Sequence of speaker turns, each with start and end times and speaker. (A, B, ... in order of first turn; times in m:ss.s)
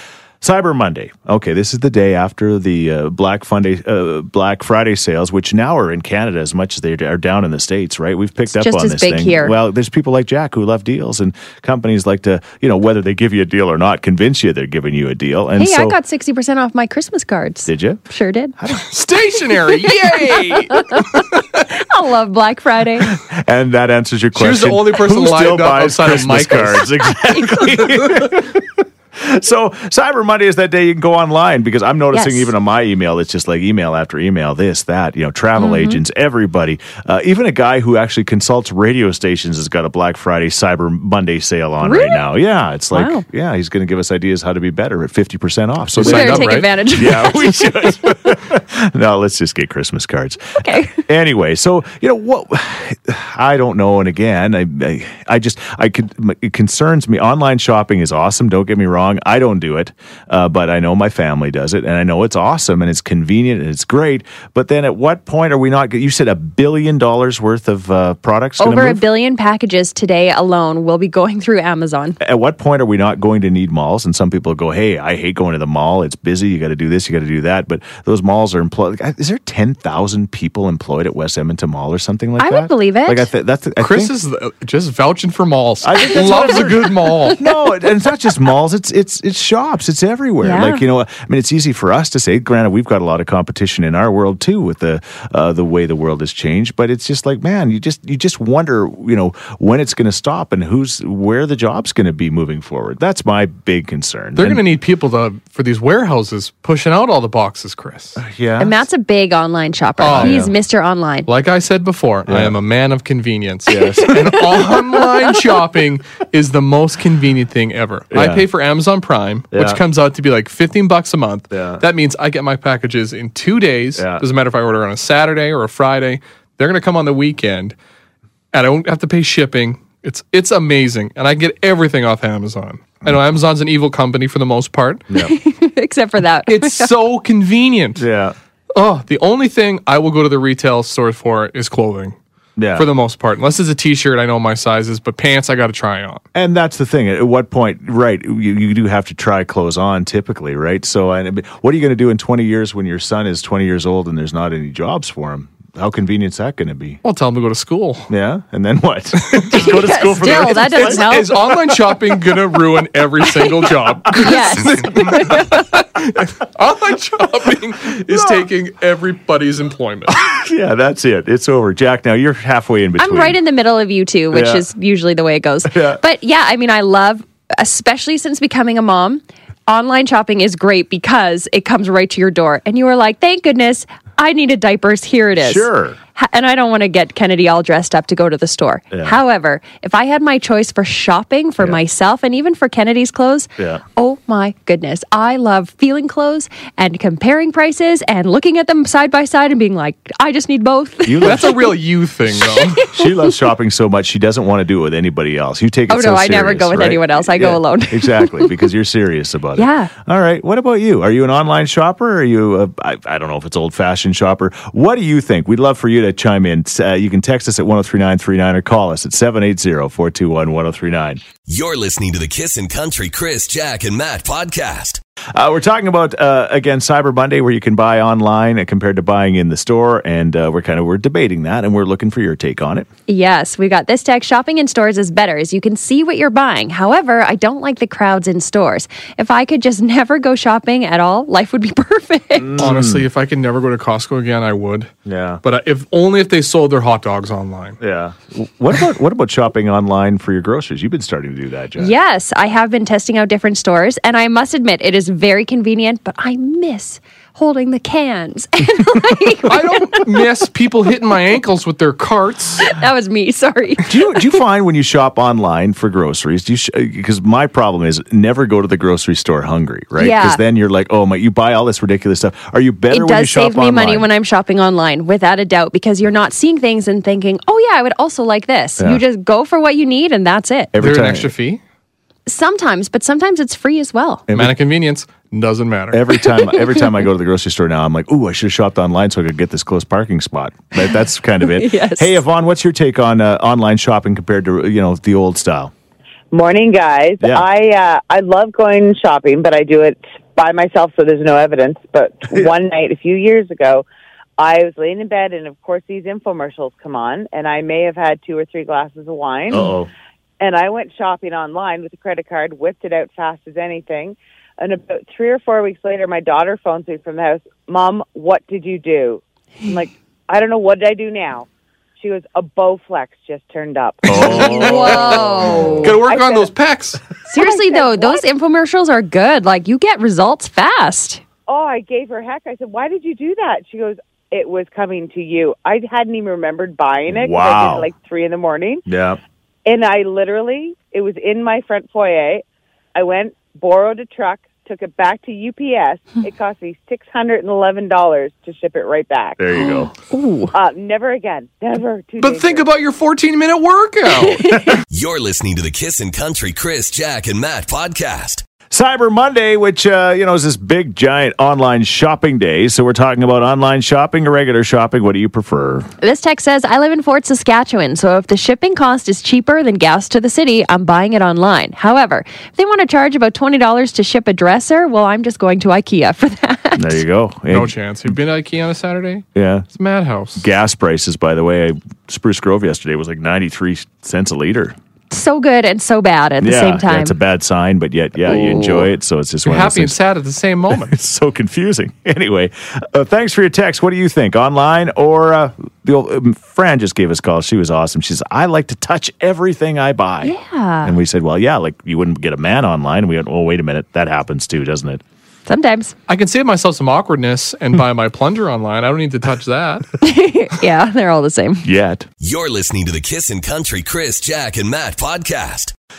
0:00.4-0:16.0 A
0:08.5-0:09.6 B
0:15.6-0:18.6 B
0:17.7-0:18.0 A
0:18.6-0:18.9 A
0:18.9-0:21.4 C
0:20.7-0:21.0 B
0:21.7-0:23.2 B
0:23.2-1:09.0 A
0:24.4-0:27.0 C
0:32.1-0:32.5 B
0:35.6-0:36.0 B
0:41.8-0:42.2 B
0:42.9-0:43.2 B
0:45.9-0:46.8 C
0:46.0-0:47.9 B
0:50.6-0:51.0 B
1:08.6-1:12.2 B
1:12.2-1:24.1 A
1:22.4-1:23.3 B
1:23.8-1:27.4 C
1:25.8-1:44.6 A
1:30.4-1:30.8 B
1:44.4-1:48.2 C
1:48.2-1:48.8 A
1:48.6-1:51.3 B
1:50.0-1:50.5 C
1:50.1-1:50.5 A
1:51.3-2:07.8 C
1:52.3-1:52.6 A
1:53.7-1:54.6 A
1:58.1-1:58.5 A
1:59.5-1:59.8 A
2:01.5-2:01.8 A
2:04.0-2:04.2 A
2:08.5-2:15.1 C
2:15.2-2:16.9 B
2:16.5-2:18.1 C
2:18.0-2:18.4 A
2:18.8-2:22.2 C
2:22.6-2:22.9 A
2:22.7-2:26.2 C
2:26.3-2:37.0 A
2:37.0-2:38.1 C
2:38.1-2:41.1 A
2:39.2-2:39.6 C
2:39.5-2:41.4 B
2:40.3-2:50.2 C
2:44.2-2:45.6 B
2:48.1-2:48.5 A
2:50.2-2:53.4 A
2:53.0-3:21.7 B
2:54.3-2:54.6 A
2:55.7-2:56.0 A
3:05.4-3:06.0 A
3:08.9-3:09.2 A
3:21.1-3:21.7 A
3:21.2-3:22.9 C
3:22.6-3:23.3 B
3:22.9-3:41.2 A
3:25.9-3:28.6 B
3:29.6-3:29.9 B
3:41.4-3:45.0 D
3:45.4-3:52.9 A
3:53.1-4:02.6 B
4:02.4-4:03.1 A
4:02.6-4:04.9 C
4:05.0-4:05.4 A
4:05.4-4:07.8 C
4:07.8-4:11.9 A
4:11.8-4:20.0 B
4:19.4-4:22.7 C
4:22.6-4:24.2 B
4:23.9-4:34.1 A
4:30.0-4:30.4 B
4:32.9-4:40.7 B
4:40.7-4:41.3 A
4:40.8-4:41.6 C
4:42.3-4:44.3 B
4:44.3-4:44.6 A
4:44.3-4:46.2 C
4:45.9-4:55.7 A
4:46.2-4:47.0 B
4:51.4-4:52.2 B
4:56.3-5:03.8 E
4:57.2-4:57.5 A
5:04.4-5:09.8 E
5:09.5-5:09.9 A
5:10.4-5:21.5 E
5:22.0-5:25.2 E
5:24.1-5:26.0 A
5:24.1-5:27.0 C
5:24.3-5:26.0 B
5:26.0-5:26.5 E
5:27.3-5:31.2 B
5:27.3-5:28.3 E
5:31.5-5:38.8 E
5:37.1-5:37.9 A
5:38.9-5:39.2 A
5:39.7-5:42.4 E
5:43.0-5:49.4 E
5:49.4-5:49.9 A
5:49.6-5:50.5 B
5:50.5-5:52.7 E
5:52.2-5:54.6 C
5:54.9-5:58.4 D
5:58.7-6:05.9 A
6:06.0-6:17.0 B
6:16.8-6:18.1 A
6:17.5-6:20.5 C
6:19.4-6:19.7 A
6:20.4-6:24.8 A
6:25.1-6:27.2 B
6:26.4-6:30.0 A
6:28.3-6:28.9 B
6:29.4-6:31.0 C
6:30.7-6:45.0 A
6:40.2-6:41.0 B
6:45.5-6:46.0 B
6:46.1-6:49.9 C
6:50.0-6:51.7 B
6:51.6-6:52.1 A
6:52.2-6:55.7 D